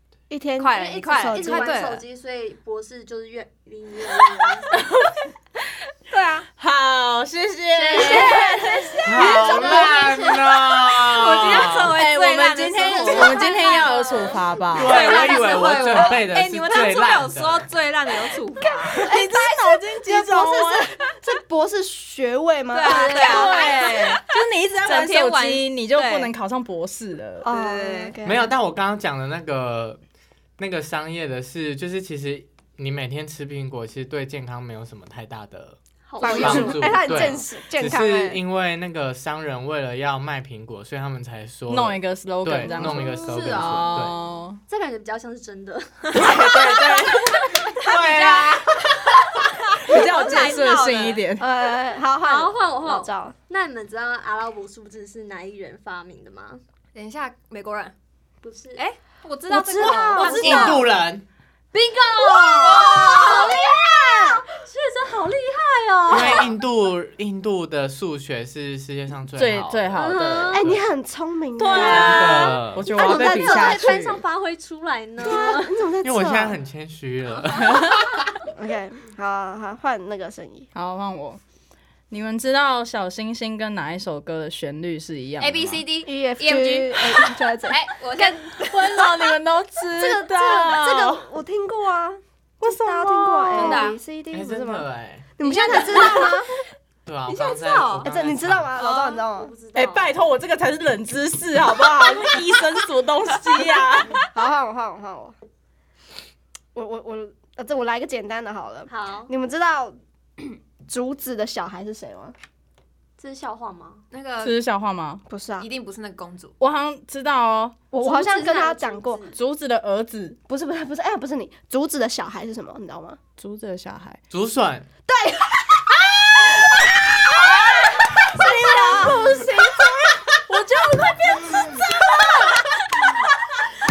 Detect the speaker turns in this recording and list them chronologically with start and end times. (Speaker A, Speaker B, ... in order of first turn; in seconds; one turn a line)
Speaker A: 0.3-1.8
Speaker B: 0.6-2.1
Speaker C: 0.8-4.8
Speaker D: 4.7-5.2
Speaker B: 6.1-6.5
Speaker D: 6.6-9.3
Speaker C: 7.7-10.6
Speaker E: 9.1-11.9
Speaker B: 9.4-10.1
Speaker B: 10.9-19.0
Speaker D: 11.9-15.0
Speaker C: 13.0-14.4
Speaker E: 14.7-17.7
Speaker C: 15.1-15.6
Speaker A: 18.6-23.6
Speaker D: 19.0-21.0
Speaker B: 22.7-26.3
Speaker C: 22.9-23.9
Speaker D: 23.0-27.5
Speaker A: 27.4-28.5
Speaker B: 27.5-28.2
Speaker E: 28.2-30.0
Speaker E: 30.6-44.2
Speaker C: 36.1-37.4
Speaker A: 36.2-38.4
Speaker D: 41.7-44.6
Speaker C: 42.7-44.1
Speaker C: 44.7-47.8
Speaker D: 46.1-47.4
Speaker B: 47.0-48.8
Speaker E: 47.7-48.9
Speaker B: 49.7-51.2
Speaker D: 49.8-51.5
Speaker A: 51.4-53.4
Speaker C: 52.1-56.6
Speaker B: 57.0-57.9
Speaker C: 58.4-58.8
Speaker B: 58.8-60.9
Speaker A: 59.5-60.9
Speaker C: 59.8-60.8
Speaker D: 60.1-60.7
Speaker E: 60.4-61.2
Speaker C: 61.7-66.5
Speaker B: 62.4-63.6
Speaker A: 63.1-64.4
Speaker E: 66.1-70.8
Speaker D: 69.4-70.6
Speaker C: 70.0-70.6
Speaker A: 70.5-73.7
Speaker D: 71.6-74.2
Speaker E: 71.7-72.9
Speaker C: 71.8-75.9
Speaker A: 75.2-76.6
Speaker E: 76.0-78.2
Speaker D: 77.6-78.0
Speaker A: 78.5-80.7
Speaker D: 80.7-81.4
Speaker D: 82.1-85.6
Speaker B: 85.4-89.3
Speaker E: 85.6-85.8
Speaker A: 86.0-88.3
Speaker D: 88.2-91.3
Speaker A: 90.0-94.8
Speaker D: 92.6-94.0
Speaker B: 93.5-94.0
Speaker E: 94.3-95.3
Speaker A: 95.4-96.6
Speaker B: 95.5-96.4
Speaker C: 95.8-96.1
Speaker E: 97.1-98.7
Speaker B: 97.3-98.1
Speaker A: 98.0-99.5
Speaker B: 98.8-99.2
Speaker C: 99.0-100.1
Speaker D: 99.7-104.3
Speaker A: 104.3-105.4
Speaker A: 106.7-112.3
Speaker C: 108.9-109.3
Speaker C: 113.2-114.0
Speaker B: 114.1-114.6
Speaker D: 114.4-115.2
Speaker A: 115.3-115.7
Speaker B: 115.6-116.6
Speaker D: 116.6-117.8
Speaker A: 117.9-119.2
Speaker C: 118.0-119.4
Speaker D: 119.3-120.4
Speaker A: 120.5-123.2
Speaker D: 123.4-124.2
Speaker E: 124.3-124.9
Speaker A: 125.1-130.2
Speaker D: 127.8-129.8
Speaker D: 130.5-131.7